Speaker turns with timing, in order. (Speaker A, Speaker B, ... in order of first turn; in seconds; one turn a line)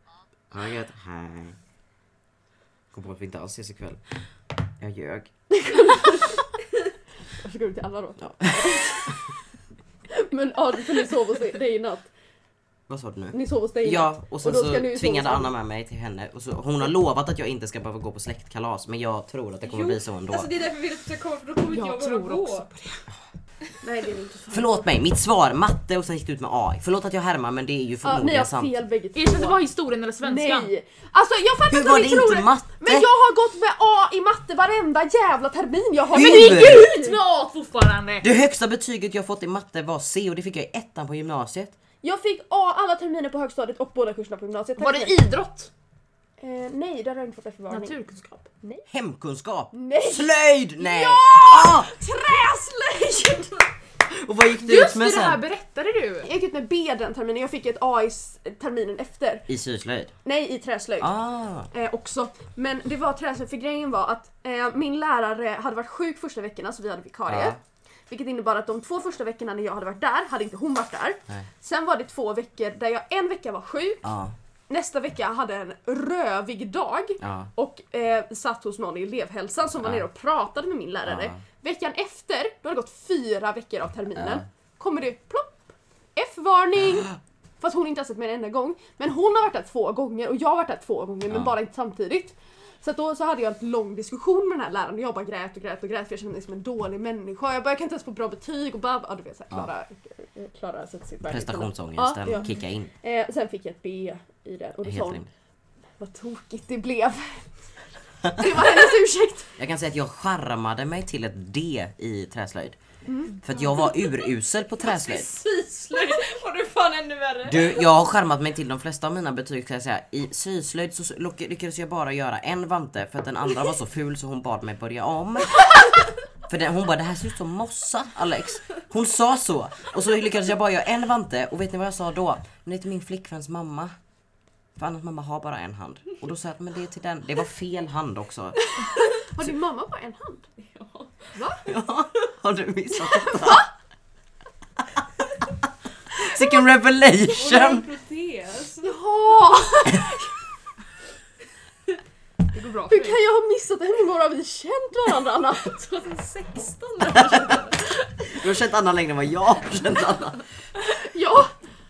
Speaker A: 0.5-1.6
Speaker A: 2.9-4.1
Speaker A: 4.8-5.3
Speaker B: 5.5-6.3
Speaker B: 7.4-9.3
Speaker A: 8.2-8.9
Speaker B: 10.1-12.1
Speaker A: 12.9-20.5
Speaker B: 13.3-15.5
Speaker C: 19.6-22.7
Speaker D: 21.7-23.1
Speaker B: 23.8-24.9
Speaker A: 24.5-28.7
Speaker B: 28.0-29.6
Speaker D: 29.1-30.7
Speaker B: 30.2-37.2
Speaker A: 31.7-33.1
Speaker A: 36.1-36.9
Speaker D: 36.1-38.3
Speaker A: 38.2-41.7
Speaker B: 42.0-45.2
Speaker D: 44.8-45.7
Speaker B: 46.4-48.0
Speaker D: 47.7-48.5
Speaker A: 48.9-51.9
Speaker B: 49.7-53.6
Speaker A: 54.0-55.4
Speaker D: 54.5-56.3
Speaker B: 56.2-59.5
Speaker A: 59.5-60.1
Speaker B: 60.2-61.2
Speaker A: 61.0-61.7
Speaker B: 61.7-74.1
Speaker A: 67.3-67.6
Speaker A: 74.0-74.3
Speaker B: 74.7-105.3
Speaker A: 77.2-77.5
Speaker A: 81.0-81.4
Speaker A: 84.2-84.4
Speaker A: 101.3-102.9
Speaker A: 104.8-105.3
Speaker B: 106.0-107.5
Speaker B: 108.2-109.5
Speaker A: 109.6-112.8
Speaker B: 113.0-113.4
Speaker A: 113.4-115.3
Speaker C: 113.8-114.3
Speaker C: 114.8-117.8
Speaker A: 117.5-125.9
Speaker A: 126.5-133.9
Speaker A: 134.8-138.6
Speaker B: 139.1-140.5
Speaker C: 140.6-141.3
Speaker A: 141.6-143.7
Speaker A: 146.1-147.8
Speaker C: 147.3-148.9
Speaker B: 148.8-150.2
Speaker D: 152.5-153.2
Speaker B: 152.9-155.9
Speaker C: 155.7-158.2
Speaker A: 157.1-157.6
Speaker A: 158.3-160.4
Speaker B: 160.8-161.5